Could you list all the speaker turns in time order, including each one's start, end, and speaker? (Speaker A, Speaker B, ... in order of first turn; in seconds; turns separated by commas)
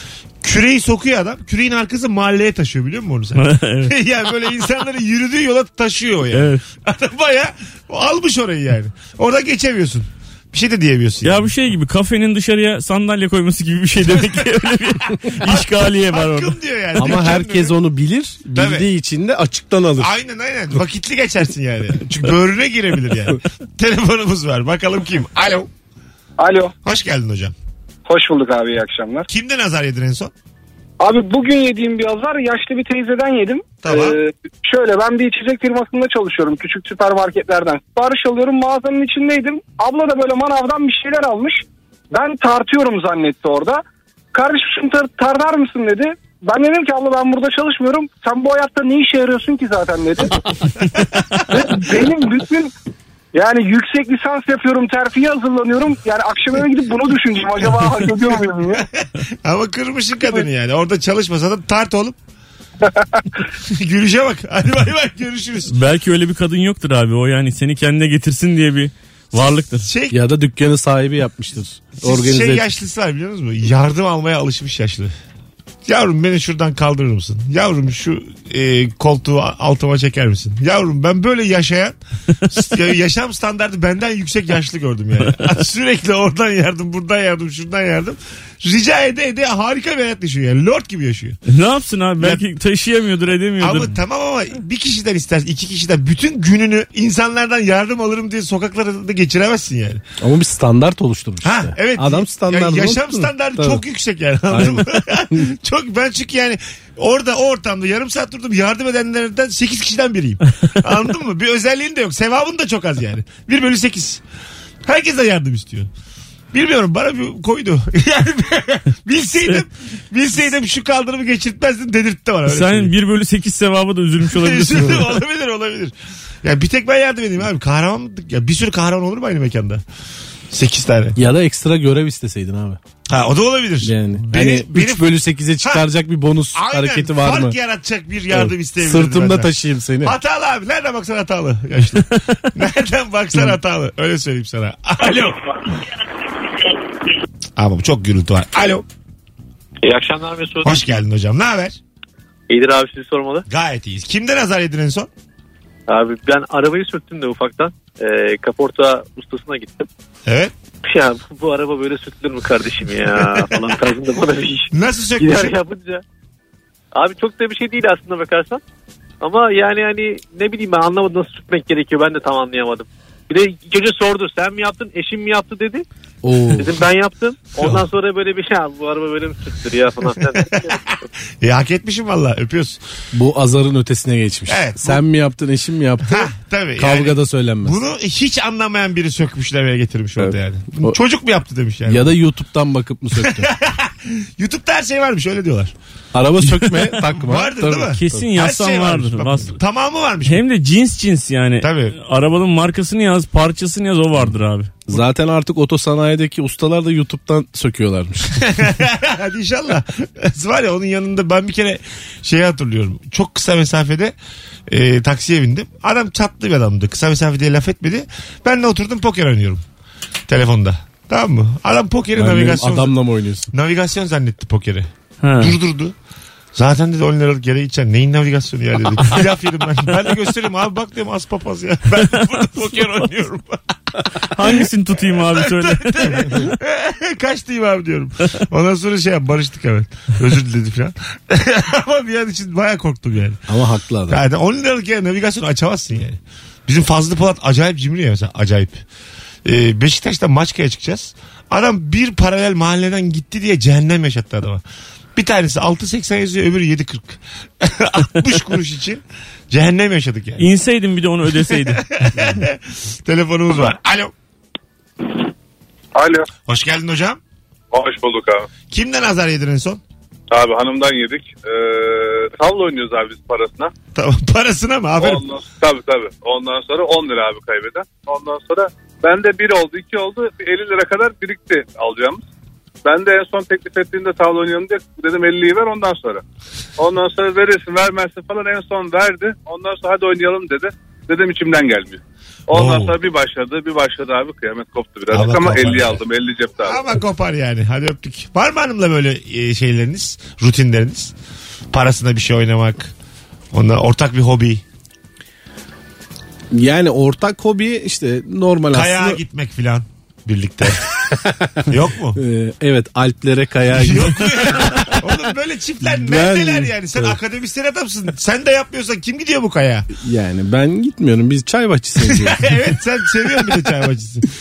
Speaker A: 0.4-11.5, Speaker B: 3.4-3.9, Speaker B: 6.3-6.6, Speaker B: 11.2-17.3, Speaker A: 14.1-14.4, Speaker A: 15.4-17.8, Speaker C: 16.9-20.1, Speaker A: 18.5-18.8, Speaker A: 20.0-25.7, Speaker D: 26.4-26.7, Speaker A: 26.8-27.5, Speaker D: 28.1-29.3, Speaker A: 29.3-30.3, Speaker D: 31.0-50.3, Speaker A: 33.8-34.1, Speaker D: 51.5-52.7, Speaker D: 53.3-58.9, Speaker A: 58.8-62.1, Speaker A: 63.7-65.7, Speaker B: 65.7-69.9, Speaker A: 69.8-70.2, Speaker C: 70.1-72.7, Speaker A: 72.0-75.1, Speaker A: 75.8-91.4, Speaker B: 85.2-85.5, Speaker B: 91.5-94.0, Speaker A: 93.6-100.0, Speaker C: 100.2-103.8, Speaker A: 101.4-114.2, Speaker C: 104.5-105.5, Speaker A: 114.8-115.9, Speaker A: 116.5-122.9, Speaker B: 122.5-125.2, Speaker A: 124.3-129.8, Speaker A: 130.5-131.2, Speaker C: 131.2-132.8, Speaker A: 133.1-135.1, Speaker C: 133.8-137.6, Speaker A: 136.5-139.5, Speaker C: 138.3-140.2, Speaker A: 140.0-145.5, Speaker A: 147.6-148.8, Speaker E: 149.8-150.7, Speaker A: 150.6-151.8, Speaker E: 152.5-153.4, Speaker A: 153.5-155.1, Speaker E: 155.9-159.9, Speaker A: 160.3-160.5, Speaker E: 160.8-166.0, Speaker A: 163.2-163.6, Speaker A: 164.7-165.5, Speaker E: 166.9-168.6, Speaker E: 169.2-175.8, Speaker C: 176.2-176.8, Speaker E: 176.6-180.8, Speaker A: 177.6-177.8, Speaker A: 180.4-180.8, Speaker A: 181.4-182.8, Speaker C: 183.1-187.8, Speaker A: 184.5-185.0, Speaker A: 186.1-192.1, Speaker C: 190.2-191.0, Speaker C: 191.8-193.5, Speaker A: 193.2-195.7, Speaker C: 196.1-198.3, Speaker A: 197.1-200.4, Speaker B: 197.9-199.6, Speaker B: 200.2-204.8, Speaker A: 201.6-201.9, Speaker C: 204.9-208.3, Speaker A: 208.4-214.1, Speaker A: 214.7-219.6, Speaker A: 220.3-222.9, Speaker C: 222.2-223.5, Speaker A: 223.5-224.9, Speaker B: 225.2-225.6, Speaker A: 225.4-225.9, Speaker A: 226.5-243.4, Speaker B: 234.3-236.5, Speaker C: 243.5-244.2, Speaker A: 244.1-248.8, Speaker A: 249.4-254.6, Speaker A: 255.1-260.4, Speaker B: 260.4-261.9, Speaker A: 261.5-264.1, Speaker F: 266.0-266.3, Speaker A: 266.4-267.2, Speaker F: 267.7-268.5, Speaker A: 268.7-269.8, Speaker F: 270.3-273.7, Speaker A: 273.9-275.2, Speaker F: 275.0-282.2, Speaker F: 282.8-286.2, Speaker F: 286.8-296.8, Speaker A: 292.5-292.9, Speaker A: 295.1-296.0, Speaker A: 296.6-301.1, Speaker A: 301.7-302.9, Speaker A: 303.5-304.6, Speaker C: 306.5-309.2, Speaker A: 308.7-311.0, Speaker C: 311.2-311.6, Speaker A: 311.6-312.2, Speaker C: 312.1-315.1, Speaker A: 313.7-319.9, Speaker C: 315.8-317.2, Speaker C: 319.9-322.6, Speaker A: 322.2-324.2